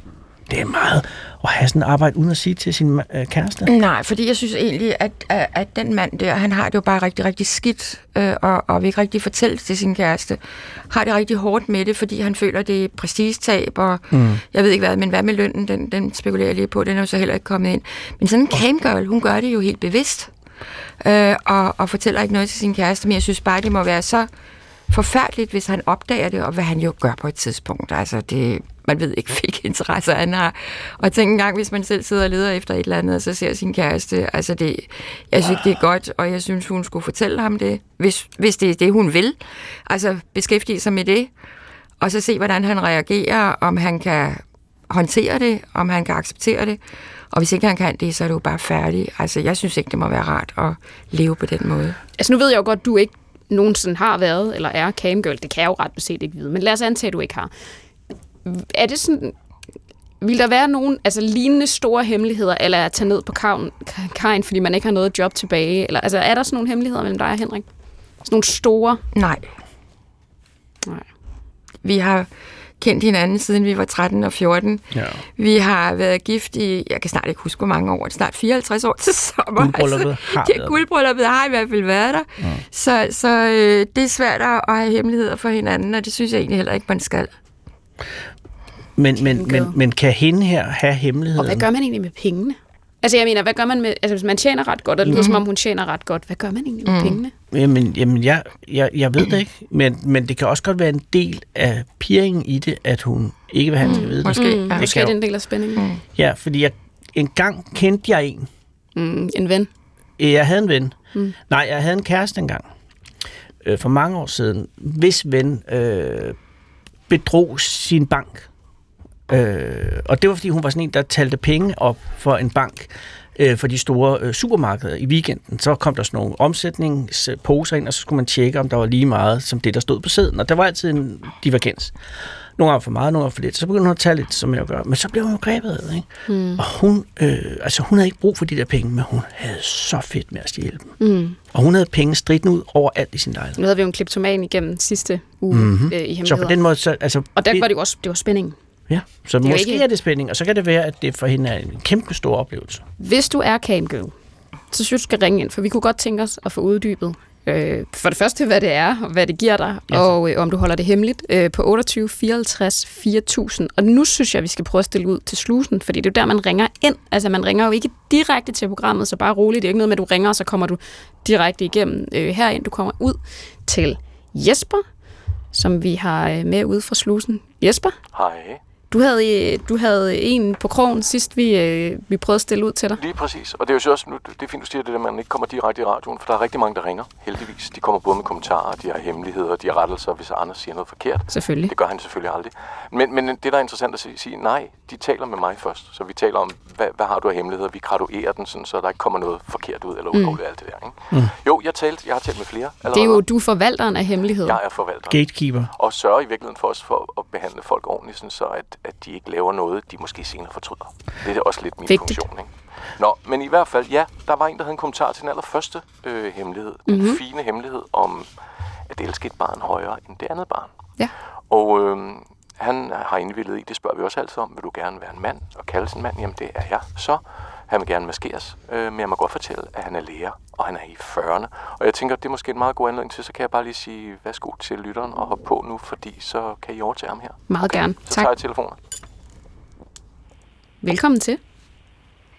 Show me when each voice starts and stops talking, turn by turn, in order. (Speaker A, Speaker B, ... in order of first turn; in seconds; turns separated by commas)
Speaker A: 0.5-3.7, Speaker B: 3.7-10.4, Speaker B: 10.9-20.3, Speaker A: 14.1-14.4, Speaker B: 21.0-24.3, Speaker B: 24.9-41.3, Speaker B: 42.0-46.8, Speaker B: 47.3-52.0, Speaker C: 52.2-57.5, Speaker C: 58.5-59.4, Speaker C: 60.2-67.7, Speaker C: 68.2-69.0, Speaker B: 69.1-69.5, Speaker B: 71.8-72.3, Speaker B: 72.8-74.9, Speaker A: 74.9-75.2, Speaker B: 75.4-87.3, Speaker A: 79.6-80.8, Speaker A: 89.0-91.7, Speaker C: 89.3-89.7, Speaker C: 91.4-97.3, Speaker B: 95.2-95.4, Speaker B: 96.9-97.2, Speaker A: 97.5-105.1, Speaker B: 103.8-104.9, Speaker C: 103.8-105.8, Speaker B: 105.8-106.0, Speaker A: 106.2-108.5, Speaker C: 109.0-109.7, Speaker A: 110.2-111.0, Speaker A: 111.5-112.7, Speaker A: 113.6-116.4, Speaker A: 117.1-118.5, Speaker A: 119.3-131.9, Speaker A: 132.6-141.0, Speaker C: 136.3-136.6, Speaker C: 141.0-141.4, Speaker A: 141.5-143.6, Speaker C: 143.6-146.6, Speaker A: 145.5-147.7, Speaker C: 147.3-148.6, Speaker A: 148.9-152.8, Speaker C: 149.4-149.8, Speaker C: 153.0-154.1, Speaker C: 154.7-174.8, Speaker C: 175.5-177.9, Speaker D: 178.1-178.6, Speaker C: 178.9-183.0, Speaker D: 183.0-203.2, Speaker C: 191.3-191.7, Speaker C: 200.1-200.4, Speaker C: 202.9-204.6, Speaker D: 204.4-218.3, Speaker A: 205.1-205.7, Speaker C: 211.9-212.2, Speaker C: 216.9-217.2, Speaker D: 218.9-220.9, Speaker D: 221.5-238.8, Speaker C: 237.5-238.3, Speaker C: 240.8-241.4